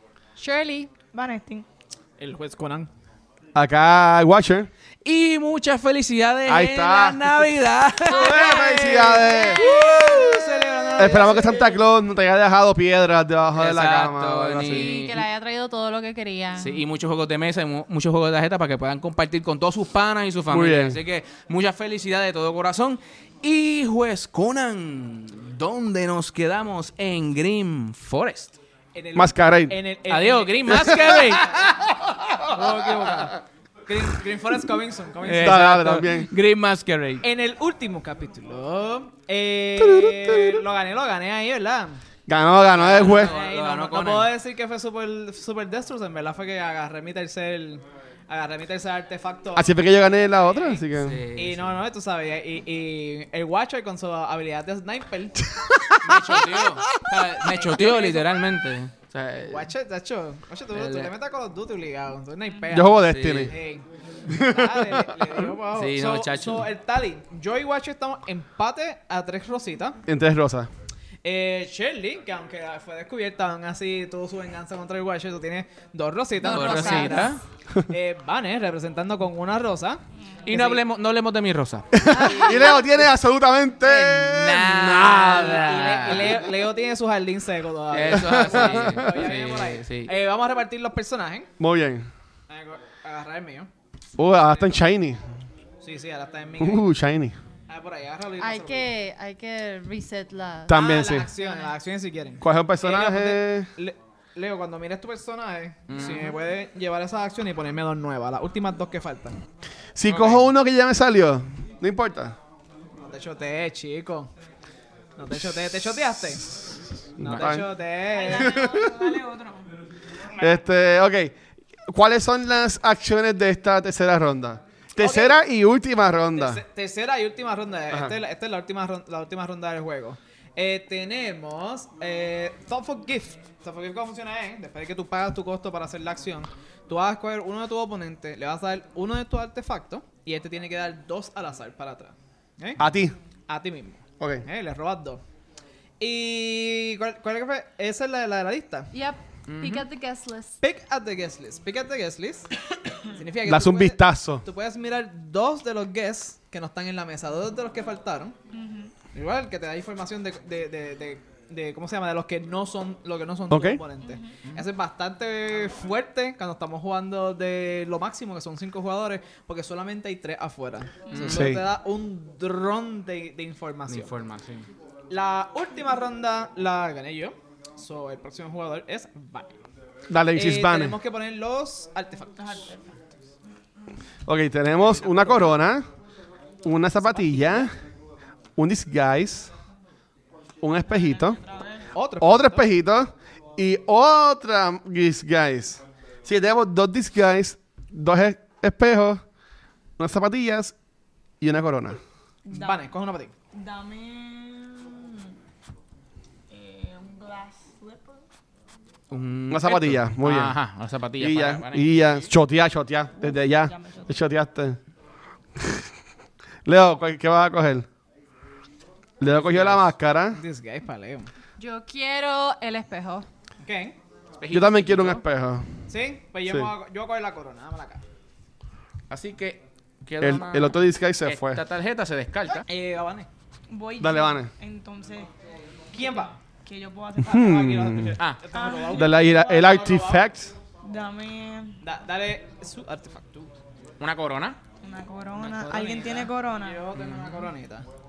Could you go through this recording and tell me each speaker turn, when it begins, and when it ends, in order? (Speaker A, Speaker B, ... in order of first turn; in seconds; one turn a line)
Speaker A: 0.4-0.9
Speaker B: 1.1-1.7
Speaker C: 2.2-2.9
Speaker D: 3.5-4.7
Speaker E: 5.0-8.4
Speaker D: 6.5-7.3
Speaker D: 8.1-9.7
Speaker A: 8.1-8.9
Speaker C: 8.1-11.8
Speaker A: 9.4-10.4
Speaker D: 11.0-14.9
Speaker E: 13.6-15.2
Speaker A: 14.7-16.8
Speaker E: 16.6-28.6
Speaker D: 20.5-21.0
Speaker C: 28.9-31.7
Speaker D: 29.2-29.8
Speaker E: 30.1-31.8
Speaker C: 32.5-33.4
Speaker C: 33.9-35.8
Speaker E: 35.2-37.2
Speaker D: 35.3-36.3
Speaker C: 37.2-42.0
Speaker D: 39.8-40.6
Speaker D: 42.3-43.3
Speaker E: 42.8-44.3
Speaker C: 43.0-55.5
Speaker D: 49.6-51.2
Speaker E: 51.0-51.7
Speaker D: 55.5-57.1
Speaker E: 56.0-59.7
Speaker C: 57.2-58.4
Speaker C: 59.4-70.0
Speaker E: 60.7-61.1
Speaker D: 62.7-63.5
Speaker E: 63.0-63.5
Speaker D: 64.3-65.3
Speaker E: 65.7-66.7
Speaker D: 70.1-70.7
Speaker C: 71.2-80.8
Speaker A: 76.4-77.3
Speaker E: 76.4-77.4
Speaker E: 80.5-81.9
Speaker D: 81.9-86.4
Speaker A: 82.1-82.8
Speaker C: 82.2-82.9
Speaker E: 83.8-86.4
Speaker C: 85.5-91.5
Speaker E: 87.9-90.1
Speaker D: 88.1-89.1
Speaker D: 91.6-92.1
Speaker C: 92.5-93.7
Speaker D: 94.2-95.2
Speaker C: 94.5-94.8
Speaker C: 95.8-96.9
Speaker D: 96.6-97.4
Speaker C: 97.7-98.9
Speaker A: 98.4-100.8
Speaker D: 100.7-101.3
Speaker C: 100.7-109.4
Speaker D: 102.4-103.7
Speaker E: 105.9-106.4
Speaker D: 110.0-112.4
Speaker E: 110.1-110.5
Speaker C: 113.0-114.3
Speaker C: 115.2-116.5
Speaker D: 116.5-117.7
Speaker C: 117.2-118.6
Speaker E: 117.3-117.6
Speaker B: 118.1-119.7
Speaker D: 118.3-119.1
Speaker D: 120.4-121.3
Speaker D: 121.9-126.6
Speaker C: 125.0-125.4
Speaker C: 126.3-142.8
Speaker D: 142.8-143.2
Speaker C: 143.5-145.2
Speaker D: 144.2-144.4
Speaker C: 146.0-148.9
Speaker A: 148.9-150.6
Speaker E: 149.5-149.8
Speaker C: 150.6-152.5
Speaker C: 153.1-158.4
Speaker D: 153.5-154.4
Speaker B: 158.5-158.9
Speaker C: 159.1-174.1
Speaker D: 163.5-163.8
Speaker B: 164.0-164.3
Speaker B: 171.1-171.3
Speaker E: 171.1-171.6
Speaker D: 171.2-171.7
Speaker E: 173.9-174.7
Speaker C: 175.1-179.6
Speaker D: 180.1-181.0
Speaker C: 180.3-182.8
Speaker B: 182.4-182.8
Speaker D: 184.3-185.9
Speaker C: 184.8-185.5
Speaker D: 186.6-187.7
Speaker C: 187.0-187.7
Speaker D: 188.6-189.5
Speaker D: 190.6-191.4
Speaker B: 190.9-191.9
Speaker C: 191.9-192.7
Speaker D: 192.2-199.2
Speaker D: 200.0-200.8
Speaker D: 201.4-202.0
Speaker B: 202.5-202.9
Speaker C: 202.5-203.3
Speaker B: 203.5-205.3
Speaker B: 206.5-208.2
Speaker E: 209.1-212.1
Speaker D: 209.5-210.6
Speaker D: 211.2-214.8
Speaker B: 213.3-214.1
Speaker D: 215.6-215.8
Speaker D: 216.7-217.9
Speaker D: 219.2-220.4
Speaker E: 219.2-219.9
Speaker C: 220.3-221.3
Speaker A: 221.6-223.3
Speaker C: 223.6-224.0
Speaker E: 224.4-225.2
Speaker D: 224.5-225.7
Speaker C: 225.9-228.0
Speaker E: 229.1-232.7
Speaker D: 230.2-231.6
Speaker C: 232.7-233.3
Speaker B: 233.7-235.3
Speaker D: 234.0-234.5
Speaker C: 235.9-236.4
Speaker B: 236.5-237.7
Speaker D: 237.2-238.2
Speaker C: 237.3-240.3
Speaker B: 238.5-239.3
Speaker D: 238.9-240.5
Speaker B: 240.8-241.8
Speaker C: 241.8-243.5
Speaker E: 244.0-244.6
Speaker B: 244.8-246.9
Speaker C: 245.3-247.9
Speaker E: 246.9-247.5